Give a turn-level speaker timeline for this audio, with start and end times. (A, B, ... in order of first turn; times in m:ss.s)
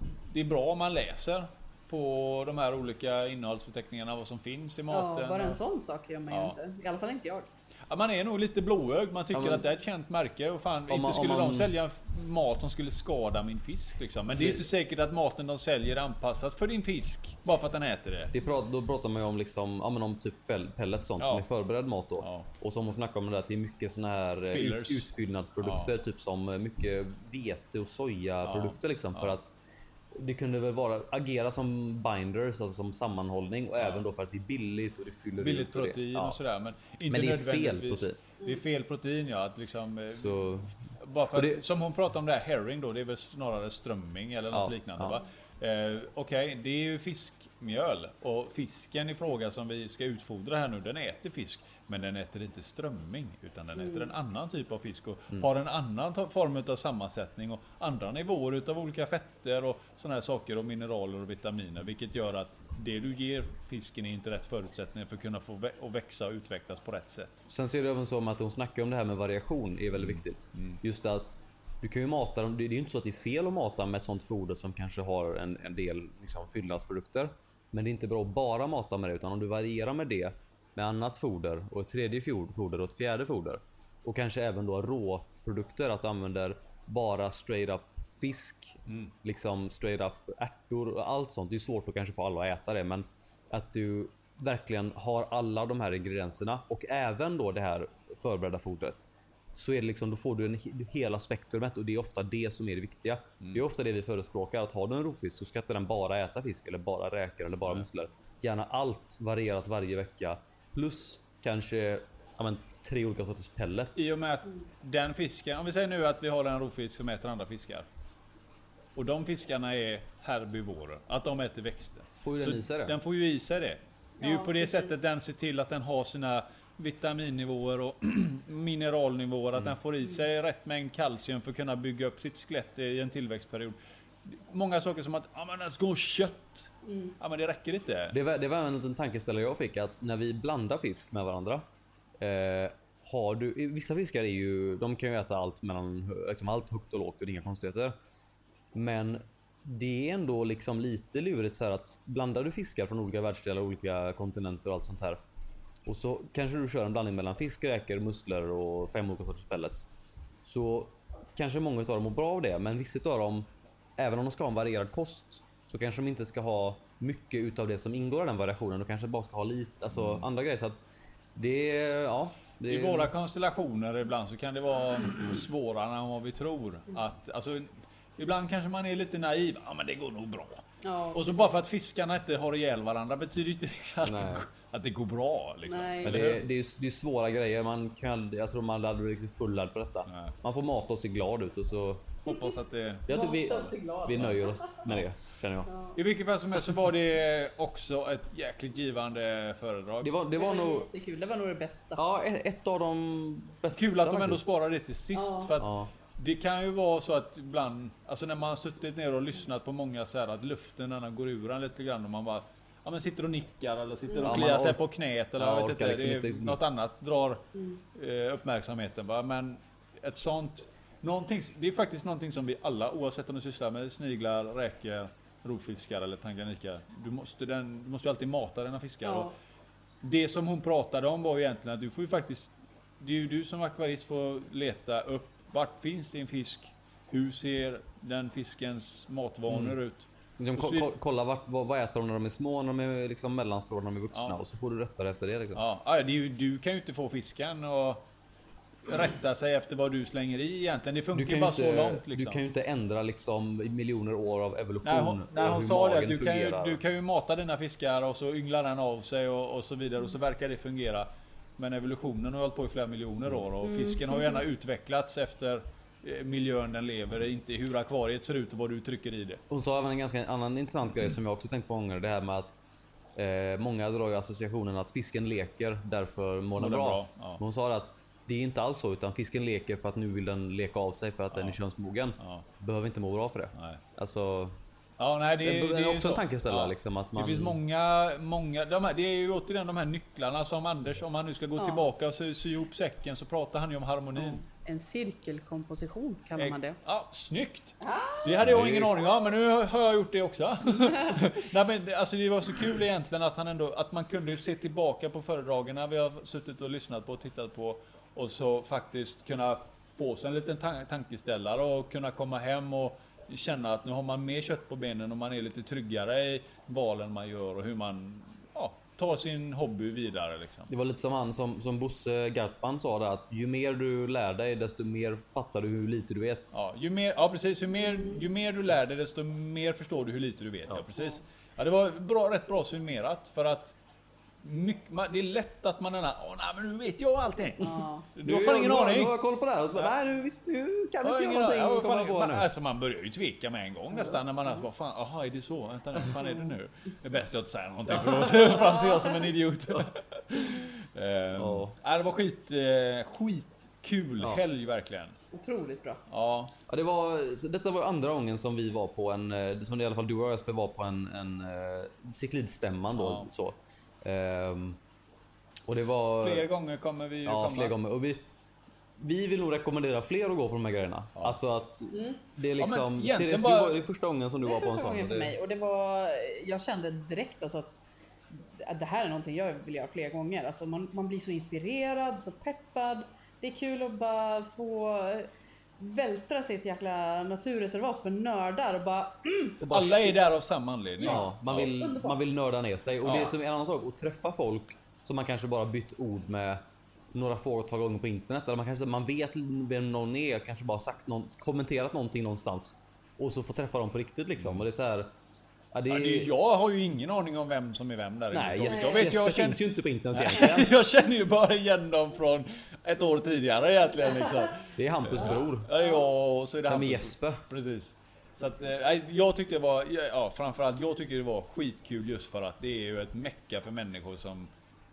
0:00.3-0:05.6 A
0:04.9-0:07.5 B
0:06.3-0:06.6 A
0:07.9-0:18.3 A
0:09.3-0:09.6 C
0:10.9-0:11.7 C
0:18.3-0:29.5 C
0:21.2-0:21.4 A
0:22.2-0:22.5 A
0:24.5-0:25.1 A
0:25.6-0:25.9 A
0:28.4-0:29.3 A
0:30.1-0:36.4 C
0:35.4-1:07.4 A
0:37.1-0:38.2 C
0:40.1-0:40.8 C
0:41.3-0:41.6 C
0:44.5-0:45.2 C
1:07.5-1:54.0 C
1:10.0-1:10.8 A
1:54.0-1:57.9 A
1:58.9-2:18.1 A
2:02.2-2:03.0 C
2:04.2-2:05.0 B
2:16.8-2:17.1 B
2:18.1-2:21.6 C
2:22.2-2:27.9 C
2:28.7-2:35.2 C
2:35.8-2:39.9 C
2:40.4-2:50.8 C
2:49.9-2:50.2 A
2:51.3-2:53.1 C
2:52.7-3:06.4 A
3:00.8-3:01.5 B
3:04.0-3:04.5 C
3:05.7-3:06.2 B
3:06.0-3:12.2 C
3:10.1-3:10.3 A
3:12.2-3:13.6 A
3:13.1-3:15.7 C
3:13.1-3:14.7 B
3:14.1-3:15.0 A
3:15.7-3:16.0 B
3:15.9-3:20.1 A
3:20.0-3:20.9 C
3:20.4-3:22.0 B
3:22.0-3:24.5 C
3:23.7-3:49.3 A
3:25.1-3:25.5 B
3:25.6-3:25.9 C
3:34.1-3:34.4 B
3:34.2-3:34.8 C
3:35.4-3:36.6 C
3:49.0-3:49.3 B
3:50.0-4:00.9 A
3:59.5-3:59.7 C
4:00.4-4:05.6 C
4:04.1-4:04.4 A
4:05.5-4:08.0 A
4:08.8-4:12.4 A
4:11.1-4:16.8 C
4:14.8-4:29.4 A
4:23.6-4:24.4 B
4:29.5-4:32.6 C
4:33.2-4:44.6 C
4:36.6-4:37.4 A
4:42.2-4:42.4 A
4:43.5-4:43.8 A
4:45.0-4:54.4 A
4:45.4-4:47.6 C
4:51.6-4:51.8 B
4:54.2-4:56.8 B
4:56.4-5:20.7 A
4:57.8-4:58.3 B
4:58.2-4:59.0 C
5:20.7-5:26.6 C
5:26.5-5:33.8 A
5:34.4-5:39.1 A
5:37.6-5:38.1 B
5:38.2-5:42.5 C
5:41.0-5:55.2 A
5:51.4-5:51.7 C
5:55.3-5:56.0 B
5:56.1-5:56.5 A
5:56.7-6:04.8 C
6:03.0-6:03.3 A
6:05.7-6:06.4 C
6:06.2-6:07.8 A
6:07.2-6:08.2 C
6:09.0-6:15.3 C
6:11.9-6:12.2 B
6:12.6-6:13.8 A
6:14.4-6:17.8 B
6:18.3-6:29.6 B
6:29.6-6:30.2 C
6:29.7-6:31.7 A
6:31.0-6:32.2 B
6:31.0-6:36.6 C
6:33.0-6:33.3 A
6:37.1-6:45.1 C
6:44.4-6:44.6 A
6:45.7-6:46.3 C
6:45.9-7:04.5 A
6:48.3-6:50.7 C
6:48.7-6:49.0 B
6:54.7-6:55.7 C
6:56.7-6:57.4 C